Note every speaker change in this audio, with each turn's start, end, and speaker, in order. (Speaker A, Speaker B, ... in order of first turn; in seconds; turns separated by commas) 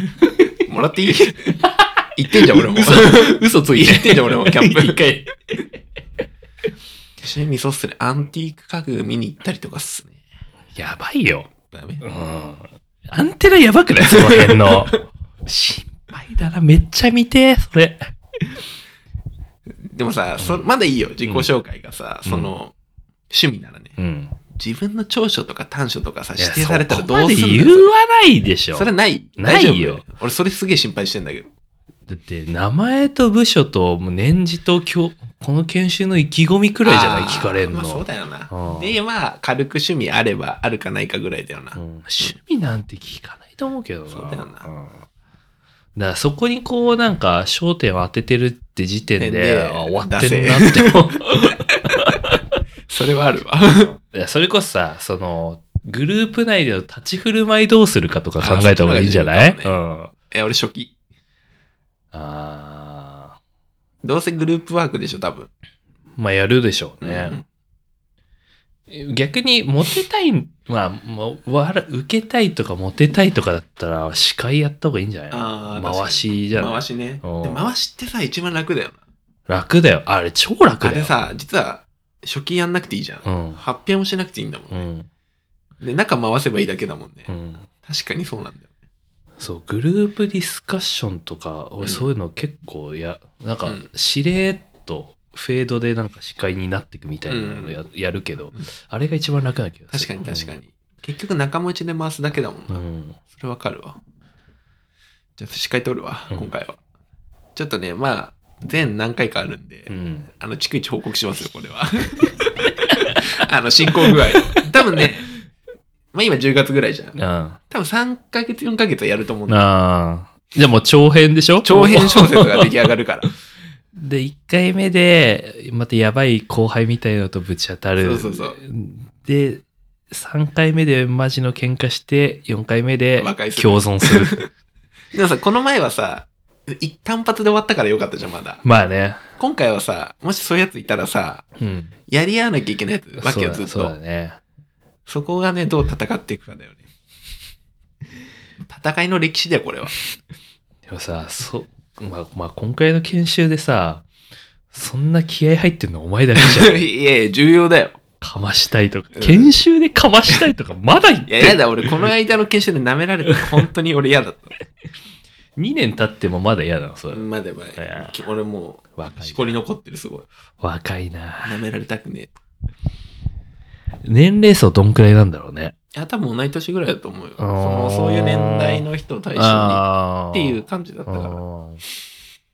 Speaker A: 0.7-1.5, Speaker A: 2.1-5.0, Speaker B: 2.5-5.6, Speaker A: 7.2-10.2, Speaker B: 10.8-11.5, Speaker A: 11.7-12.0, Speaker B: 12.0-18.0, Speaker A: 14.0-15.0, Speaker A: 19.9-22.7, Speaker B: 20.4-20.6, Speaker B: 21.2-21.5, Speaker B: 22.2-22.6, Speaker A: 23.3-23.9, Speaker B: 24.0-24.4, Speaker A: 24.6-27.9, Speaker B: 26.4-30.0, Speaker A: 28.7-31.5, Speaker B: 32.1-39.0, Speaker A: 36.8-42.3, Speaker B: 41.8-45.0, Speaker A: 44.1-44.7, Speaker B: 45.9-51.4, Speaker A: 49.2-51.1, Speaker A: 52.9-53.9, Speaker B: 54.0-60.1, Speaker A: 58.4-59.7, Speaker A: 60.3-60.9, Speaker B: 62.1-63.4, Speaker A: 64.0-65.5, Speaker B: 66.2-67.4, Speaker A: 67.0-67.4, Speaker B: 68.9-77.7, Speaker A: 75.3-79.0, Speaker B: 79.5-81.2, Speaker A: 80.8-84.9, Speaker B: 83.2-83.6, Speaker B: 84.7-85.1, Speaker A: 85.8-87.3, Speaker B: 87.3-87.7, Speaker A: 87.8-88.7, Speaker B: 89.4-100.5, Speaker A: 91.8-92.1, Speaker A: 97.3-97.8, Speaker A: 99.9-102.8, Speaker B: 102.7-103.2, Speaker A: 103.3-104.0, Speaker A: 105.4-106.8, Speaker A: 107.5-112.4, Speaker B: 109.9-110.3, Speaker A: 113.3-115.2, Speaker A: 116.1-117.2, Speaker B: 117.2-117.6, Speaker A: 117.7-119.6, Speaker B: 119.5-122.6, Speaker A: 121.6-123.3, Speaker B: 124.0-134.5, Speaker A: 128.0-128.6, Speaker A: 133.2-134.5, Speaker A: 135.1-138.6, Speaker B: 138.6-139.2, Speaker A: 139.4-141.4, Speaker B: 141.6-141.9, Speaker A: 142.1-143.9, Speaker B: 143.2-144.4, Speaker A: 145.1-146.8, Speaker A: 148.7-150.0, Speaker B: 150.9-154.0, Speaker B: 154.7-156.8, Speaker A: 156.4-158.0, Speaker B: 158.2-162.1, Speaker A: 159.2-159.5, Speaker A: 161.3-164.5, Speaker B: 165.6-167.2, Speaker A: 167.1-170.3, Speaker B: 167.8-168.2, Speaker B: 169.0-169.6, Speaker B: 170.6-171.6, Speaker A: 171.4-172.4, Speaker B: 174.0-175.7, Speaker A: 175.9-181.4, Speaker B: 177.4-178.8, Speaker B: 179.4-181.8